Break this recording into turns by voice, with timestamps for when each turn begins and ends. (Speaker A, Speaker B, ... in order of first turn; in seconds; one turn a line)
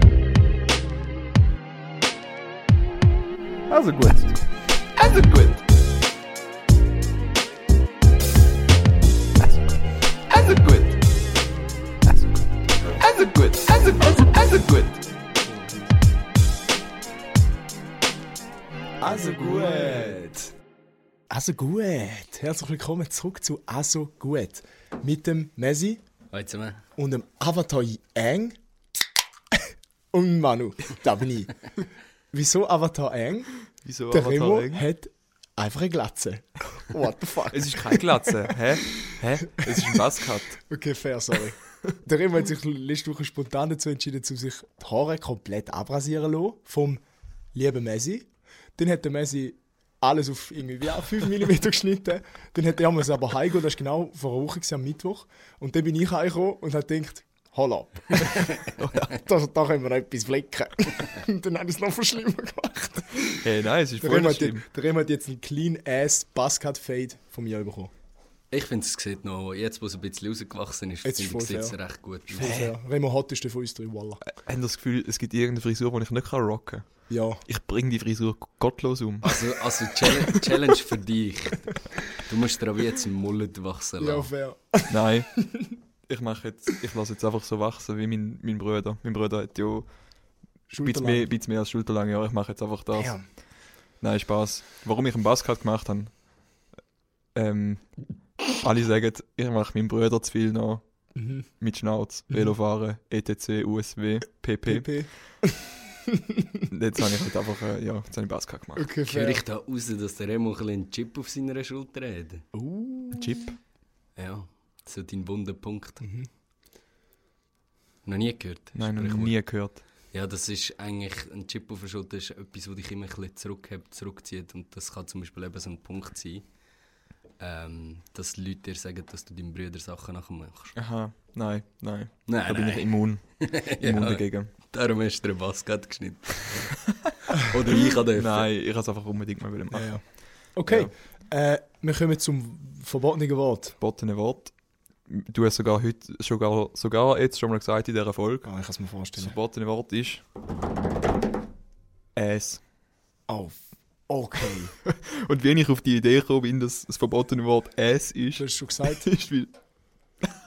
Speaker A: 3.7-5.6
Speaker A: 9.4-11.0
Speaker A: 12.0-15.0
Speaker B: 19.0-20.3
Speaker C: 19.6-20.1
Speaker B: 21.3-26.0
Speaker C: 26.3-26.8
Speaker B: 27.0-28.6
Speaker B: 30.1-31.7
Speaker B: 32.3-33.5
Speaker A: 33.8-34.8
Speaker B: 34.1-38.5
Speaker A: 37.5-40.5
Speaker B: 39.5-40.0
Speaker B: 40.5-47.0
Speaker B: 47.5-63.5
Speaker A: 58.8-59.1
Speaker A: 63.4-64.6
Speaker B: 64.0-67.9
Speaker C: 68.5-72.7
Speaker B: 71.0-71.8
Speaker B: 72.3-74.2
Speaker A: 72.4-72.7
Speaker A: 74.2-80.4
Speaker B: 77.1-77.4
Speaker C: 79.2-84.3
Speaker B: 84.0-85.8
Speaker A: 84.9-85.3
Speaker A: 86.1-89.9
Speaker B: 90.7-91.3
Speaker A: 90.8-93.4
Speaker B: 92.9-93.3
Speaker A: 94.0-96.2
Speaker A: 97.3-98.0
Speaker A: 98.5-100.8
Speaker B: 101.2-101.5
Speaker A: 101.6-105.1
Speaker B: 104.7-106.7
Speaker A: 106.7-108.9
Speaker B: 108.8-109.4
Speaker C: 109.1-112.5
Speaker B: 112.5-113.5
Speaker A: 113.1-113.6
Speaker C: 114.2-116.0
Speaker B: 116.0-116.3
Speaker C: 118.0-119.4
Speaker A: 118.8-119.8
Speaker C: 120.1-126.5
Speaker C: 127.4-130.8
Speaker A: 130.8-134.5
Speaker C: 132.3-138.5
Speaker A: 138.1-140.9
Speaker B: 139.7-143.8
Speaker A: 143.8-148.5
Speaker B: 148.4-149.3
Speaker A: 149.2-150.2
Speaker A: 152.2-152.6
Speaker B: 153.3-154.8
Speaker A: 154.8-159.5
Speaker B: 158.4-159.1